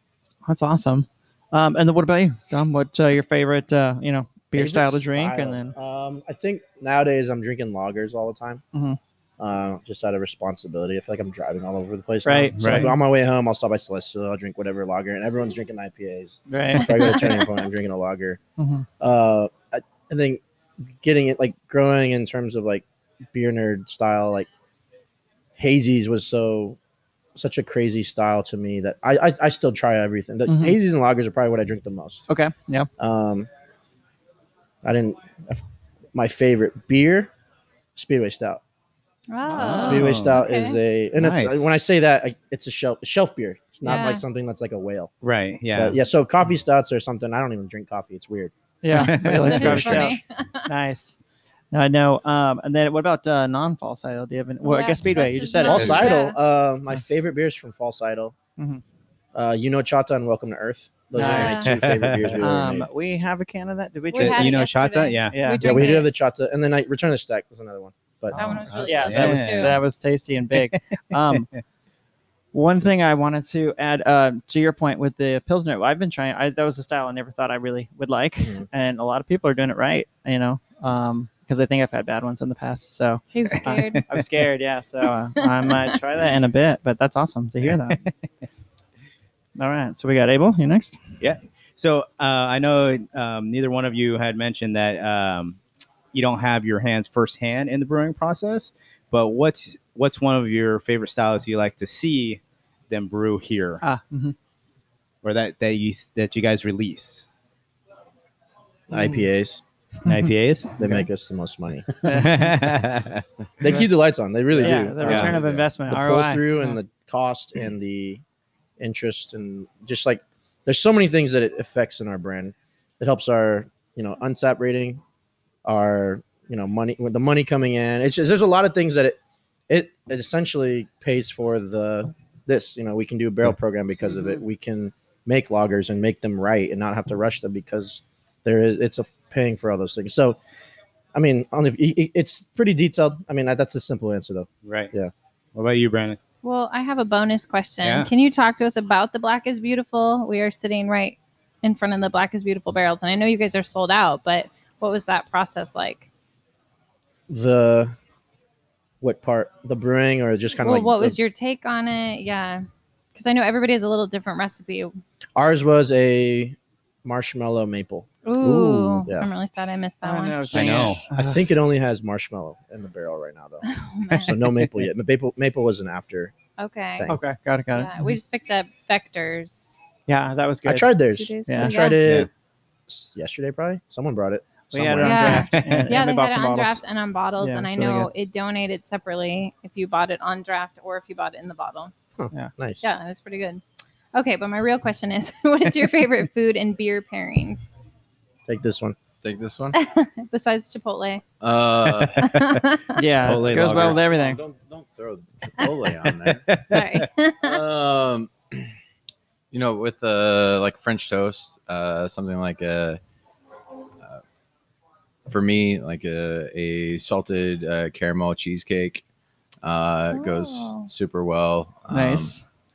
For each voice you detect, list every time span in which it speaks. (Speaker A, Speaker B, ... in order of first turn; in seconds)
Speaker A: 0.5-5.7, 8.7-9.0, 12.2-13.0, 16.5-17.2, 18.6-18.9, 30.5-30.8, 32.3-32.9, 39.5-40.0, 48.8-51.1, 51.7-56.1, 58.6-58.8, 61.1-61.6, 62.4-66.0, 68.7-71.5, 72.5-88.0, 89.5-91.0, 103.8-104.3, 112.0-112.6, 114.5-116.8, 170.0-171.4, 177.1-178.2, 180.1-180.9, 181.5-181.7, 184.7-186.8, 187.4-188.1, 202.9-204.4, 221.9-222.4
Speaker B: 4.5-8.6, 9.4-18.4, 19.0-20.4, 21.0-24.5, 25.6-26.8, 27.4-32.2, 33.0-33.5, 34.8-35.6, 36.1-37.3, 37.9-38.6, 39.7-45.1, 45.7-48.5, 49.5-50.0, 55.6-58.3, 59.3-62.9, 65.6-68.7, 108.9-109.6, 110.8-111.9, 113.6-118.2, 118.8-125.0, 125.6-129.2, 129.7-140.4, 141.1-145.1, 157.3-157.9, 159.0-161.2, 165.3-168.1, 168.9-169.3, 171.1-173.7, 174.2-176.3, 180.6-182.3, 182.9-185.5, 192.2-192.9, 198.5-198.9
Speaker C: 12.6-12.9, 39.5-40.4, 41.1-41.8, 45.2-46.0, 48.9-50.1, 61.3-62.4, 64.1-65.4, 68.3-69.8, 70.5-71.5, 87.6-88.1, 91.2-95.6, 96.1-103.8, 105.2-107.2, 110.0-110.8, 112.1-113.2, 114.6-115.3, 144.6-144.9, 145.5-146.2, 147.8-148.1, 168.4-169.0, 170.5-171.0, 185.5-186.0, 202.0-202.6, 203.2-204.0, 206.2-207.1
Speaker D: 16.9-17.4, 39.3-40.8, 43.8-44.2, 48.9-50.7, 54.6-56.4, 61.2-61.7, 64.1-66.1, 68.3-69.8, 83.3-84.0, 85.4-85.9, 146.4-156.1, 160.6-164.9, 168.2-170.9, 173.7-174.4, 176.6-177.1, 177.7-179.6, 181.1-181.9, 185.0-191.9, 192.8-193.6, 194.1-197.6, 199.7-201.2, 202.2-203.1, 206.7-207.6, 220.1-220.9
Speaker E: 115.3-115.6, 199.2-199.8, 201.4-202.4, 203.3-206.5, 207.4-208.7, 209.5-213.0, 215.3-219.0, 219.6-222.3